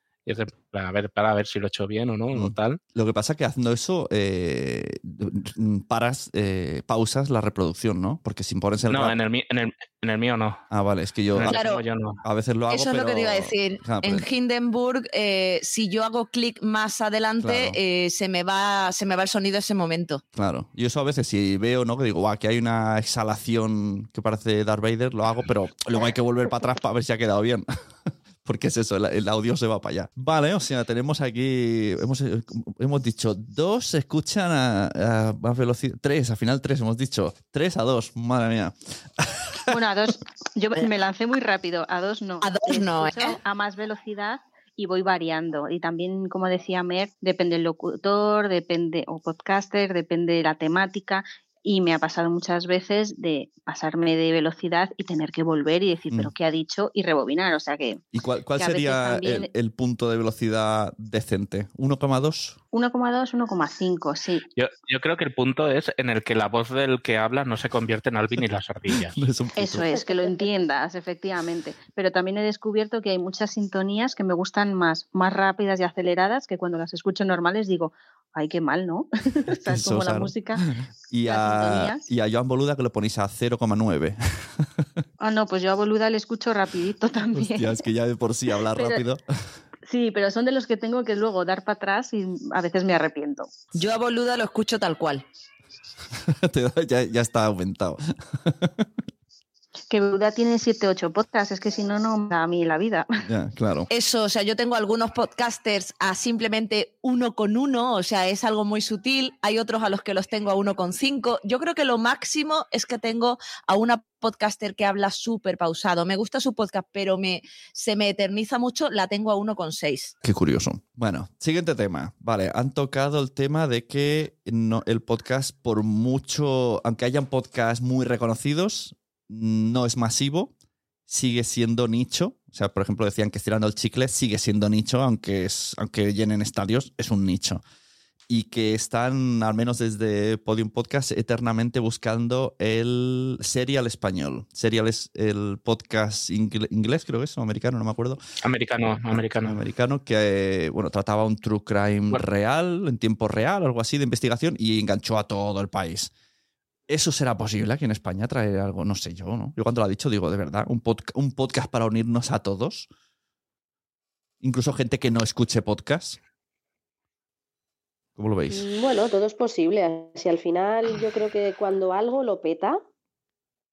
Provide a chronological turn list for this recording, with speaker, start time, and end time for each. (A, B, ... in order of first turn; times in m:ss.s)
0:00.3-0:02.8 A
0:02.3-0:09.2 B
0:08.9-0:10.6 A
0:10.7-0:11.6 B
0:11.4-0:12.2 A
0:11.4-0:11.8 C
0:12.2-0:14.3 B
0:12.7-0:20.2 C
0:17.4-0:17.8 B
0:20.4-0:39.7 B
0:39.7-0:58.0 D
0:42.4-0:43.4 C
0:58.1-1:02.6 B
0:58.6-0:59.5 D
1:02.7-1:04.4 D
1:04.6-1:09.2 A
1:09.1-1:09.9 B
1:09.6-1:20.6 D
1:19.5-1:24.9 B
1:21.3-1:22.1 D
1:25.2-1:27.8 D
1:27.3-1:29.2 B
1:28.8-1:29.0 D
1:29.9-1:33.5 D
1:33.7-1:35.2 C
1:36.2-1:38.9 B
1:39.9-1:43.2 D
1:43.2-1:43.9 B
1:43.9-2:00.1 C
2:00.2-2:10.5 B
2:11.1-2:17.6 B
2:18.3-2:28.2 B
2:28.4-2:29.6 A
2:29.1-2:36.1 B
2:36.9-2:42.9 B
2:44.4-2:46.2 B
2:48.2-2:48.7 B
2:48.5-2:52.8 E